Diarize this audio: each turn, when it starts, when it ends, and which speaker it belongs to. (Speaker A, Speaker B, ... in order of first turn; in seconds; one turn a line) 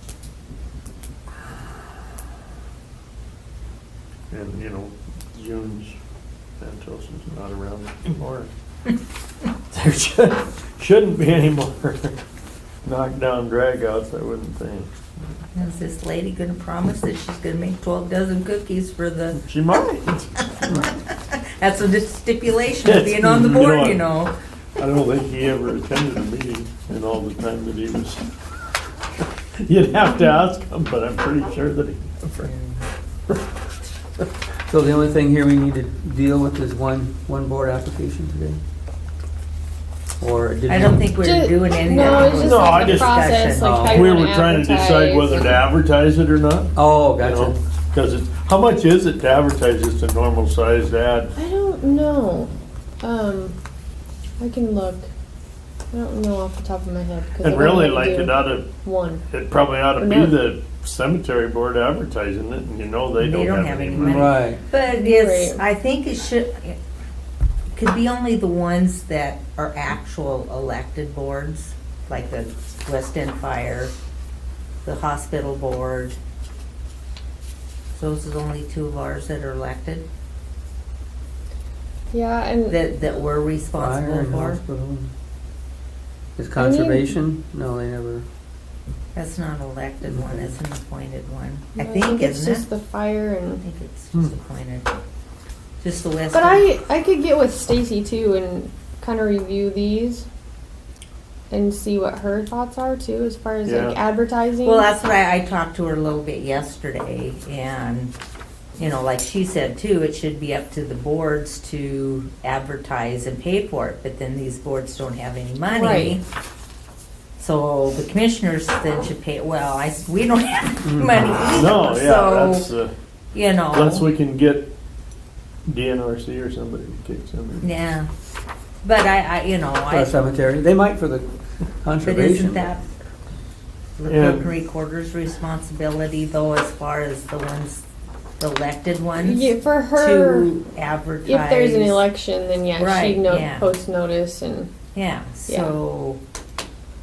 Speaker A: 4.3-6.0
Speaker A: 6.6-8.5
Speaker A: 9.7-12.2
Speaker A: 12.8-14.9
Speaker B: 15.5-19.4
Speaker A: 19.4-20.5
Speaker B: 20.4-24.4
Speaker A: 22.8-24.1
Speaker A: 24.8-28.3
Speaker A: 29.6-32.5
Speaker B: 32.4-32.9
Speaker C: 34.7-38.6
Speaker C: 40.2-41.2
Speaker B: 40.7-43.8
Speaker D: 41.2-45.6
Speaker A: 42.3-43.2
Speaker C: 43.6-44.1
Speaker A: 43.9-51.3
Speaker C: 46.8-47.5
Speaker D: 51.4-52.5
Speaker D: 53.0-53.6
Speaker D: 54.4-55.1
Speaker D: 55.9-59.2
Speaker A: 57.4-58.7
Speaker A: 59.3-64.3
Speaker D: 60.0-60.4
Speaker B: 63.2-66.8
Speaker C: 64.0-64.6
Speaker D: 64.8-65.6
Speaker B: 67.7-73.9
Speaker B: 74.8-76.2
Speaker B: 78.0-80.1
Speaker D: 82.1-82.8
Speaker B: 82.7-84.6
Speaker C: 83.7-85.1
Speaker C: 86.4-88.3
Speaker D: 86.6-87.2
Speaker B: 89.2-92.7
Speaker C: 90.0-90.5
Speaker D: 91.8-93.6
Speaker B: 93.6-95.0
Speaker B: 95.8-96.7
Speaker D: 96.3-100.3
Speaker D: 101.5-104.9
Speaker A: 103.7-104.0
Speaker B: 104.6-108.1
Speaker B: 108.8-116.2
Speaker D: 115.7-116.2
Speaker B: 117.4-122.7
Speaker C: 120.8-121.4
Speaker A: 121.5-122.9
Speaker B: 123.3-124.1
Speaker A: 123.7-124.7
Speaker A: 125.7-127.7
Speaker B: 127.6-128.1
Speaker B: 128.8-130.2
Speaker C: 129.9-131.3
Speaker C: 131.8-132.7
Speaker B: 132.0-132.8
Speaker B: 134.0-137.8
Speaker A: 134.1-134.5
Speaker B: 138.4-142.1
Speaker D: 139.2-140.6
Speaker D: 141.2-144.7
Speaker B: 142.8-143.7
Speaker B: 144.9-146.2
Speaker D: 145.5-145.7